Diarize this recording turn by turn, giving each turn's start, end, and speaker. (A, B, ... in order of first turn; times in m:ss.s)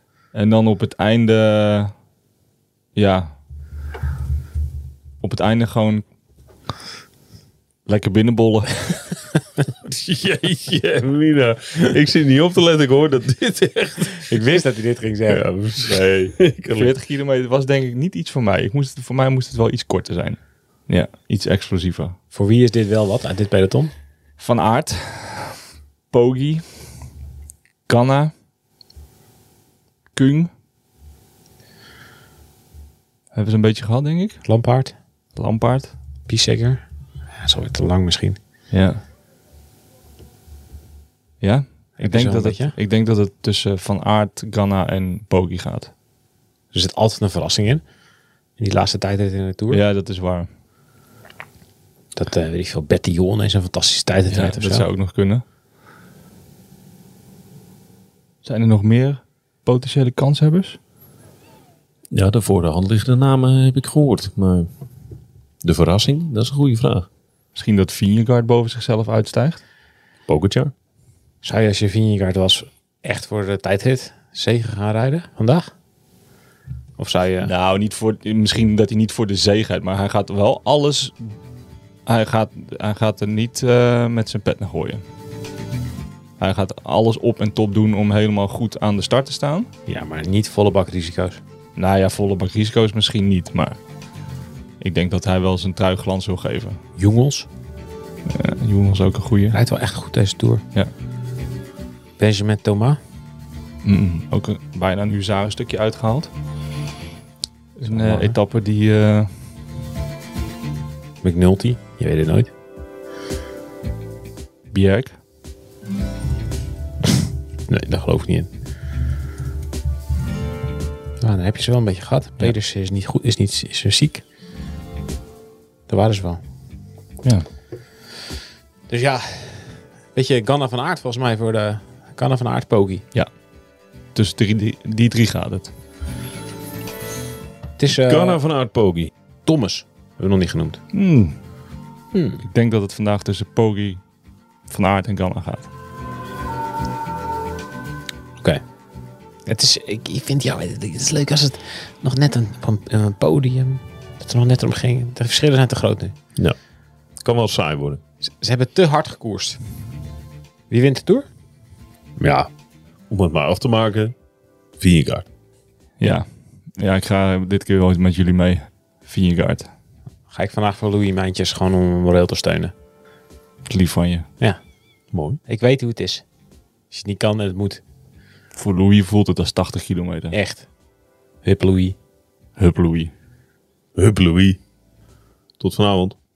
0:00.3-0:01.9 A
0:03.0-0:03.3 A
0:05.2-0:06.0 A
0:07.9-0:09.2 A
0:09.8-0:14.4 B
0:14.3-0:15.4 C
0:15.3-0:16.9 B
0:15.8-0:22.2 A
0:22.3-0:23.9 C
0:24.4-0:25.6 A
0:26.1-0:26.6 A
0:27.9-0:28.3 A
0:30.1-0:30.5 A
0:33.3-0:34.4 A
0:34.4-0:35.0 C
0:35.4-0:35.9 A
0:36.3-0:36.8 C
0:37.4-0:38.4 C
0:38.7-0:39.0 A
0:41.4-0:45.9 A
0:42.0-0:42.7 C
0:46.7-0:47.8 C
0:48.6-0:49.8 C
0:49.7-0:50.5 A
0:52.2-0:54.9 C
0:54.3-0:55.4 A
0:58.4-1:00.8 A
1:02.1-1:04.7 B
1:05.6-1:07.1 B
1:07.6-1:09.6 A
1:10.3-1:10.7 B
1:11.4-1:15.7 C
1:17.0-1:17.5 C
1:17.4-1:21.2 A
1:22.1-1:25.0 A
1:26.4-1:29.7 A
1:29.9-1:31.4 C
1:31.8-1:33.8 A
1:34.8-1:36.8 A
1:37.0-1:37.5 C
1:38.3-1:39.6 A
1:39.5-1:40.6 C
1:42.2-1:43.0 C
1:43.8-1:46.3 A
1:47.8-1:49.3 A
1:47.8-1:48.4 C
1:51.2-1:52.5 C
1:54.7-1:55.2 A
1:57.7-1:58.5 C
2:01.2-2:04.2 C
2:05.9-2:06.4 C
2:08.9-2:13.0 C
2:14.2-2:15.7 A
2:17.8-2:18.4 C
2:18.0-2:19.1 B
2:19.4-2:20.8 C
2:20.9-2:21.4 A
2:22.1-2:22.4 C
2:22.4-2:24.0 A
2:24.7-2:25.7 A
2:29.5-2:36.2 C
2:37.2-2:38.0 B
2:38.2-2:39.6 C
2:40.7-2:41.3 C
2:42.2-2:42.5 B
2:43.1-2:44.1 B
2:44.8-2:45.2 B
2:46.0-2:49.7 A
2:50.3-2:52.7 C
2:53.7-2:54.3 A
2:55.1-2:55.4 B
2:55.4-2:56.2 C
2:56.9-2:57.8 C
2:58.6-3:00.4 A
3:00.3-3:00.7 C
3:01.4-3:02.0 C
3:02.6-3:03.1 A
3:04.0-3:04.6 B
3:05.6-3:06.2 B